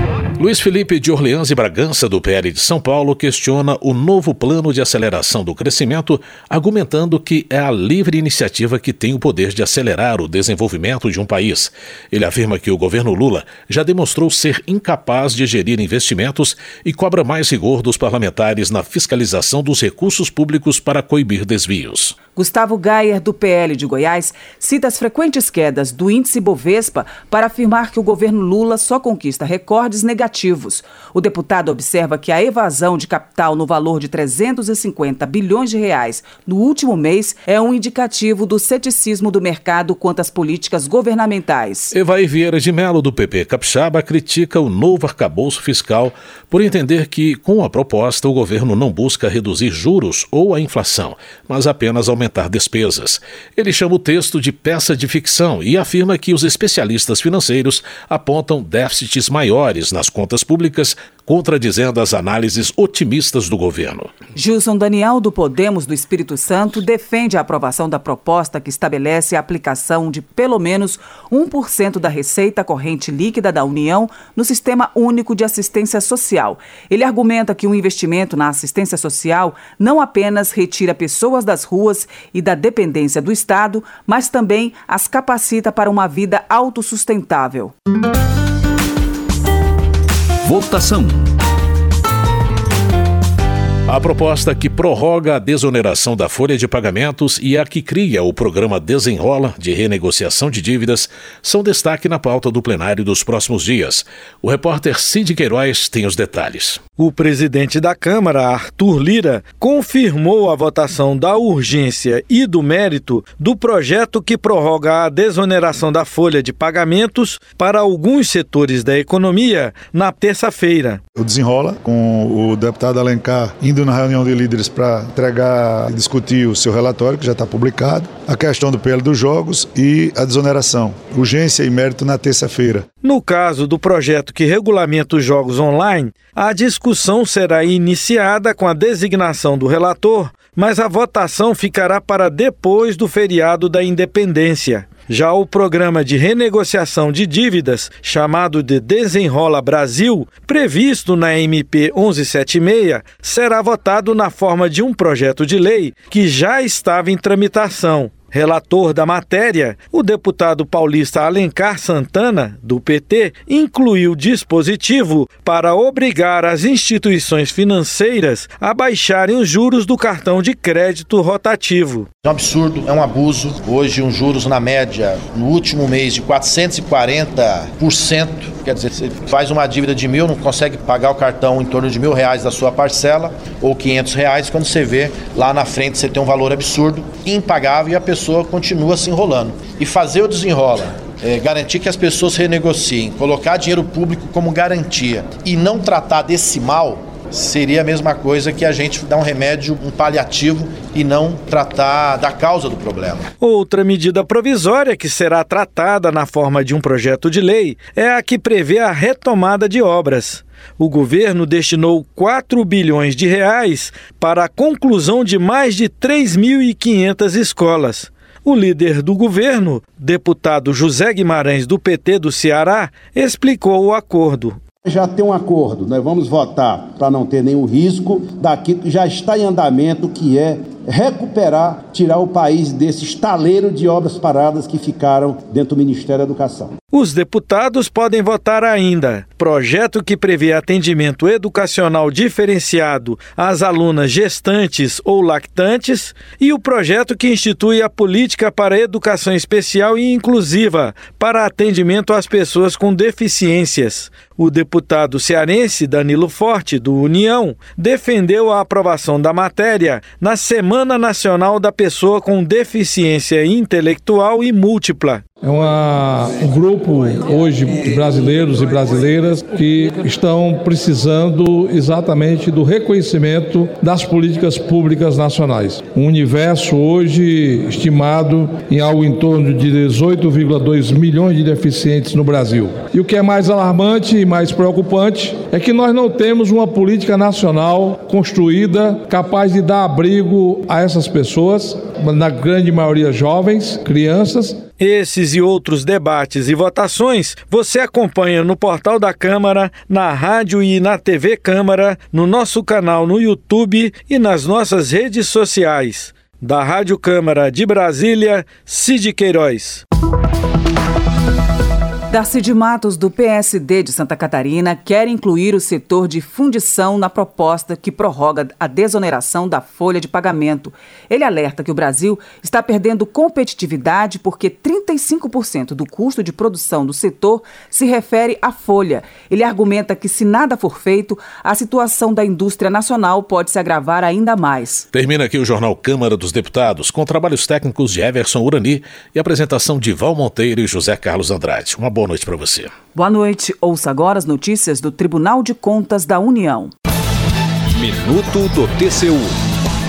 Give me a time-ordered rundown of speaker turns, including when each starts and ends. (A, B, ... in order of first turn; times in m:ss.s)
0:00.4-0:22.2 A
0:22.4-0:41.9 B
0:41.9-1:04.1 A
1:04.3-1:27.7 B
1:30.4-1:31.2 C
1:33.9-1:46.8 A
1:47.0-2:01.0 D
2:01.2-2:12.8 E
2:13.0-2:52.1 D
2:52.2-3:23.2 F
3:23.4-3:44.6 D
3:44.8-3:56.7 G
3:56.9-4:25.2 D
4:25.4-4:54.6 H
4:54.8-5:09.8 D
5:12.1-5:34.8 B
5:34.9-5:42.7 A
5:43.0-5:46.7 B
5:47.8-5:49.2 C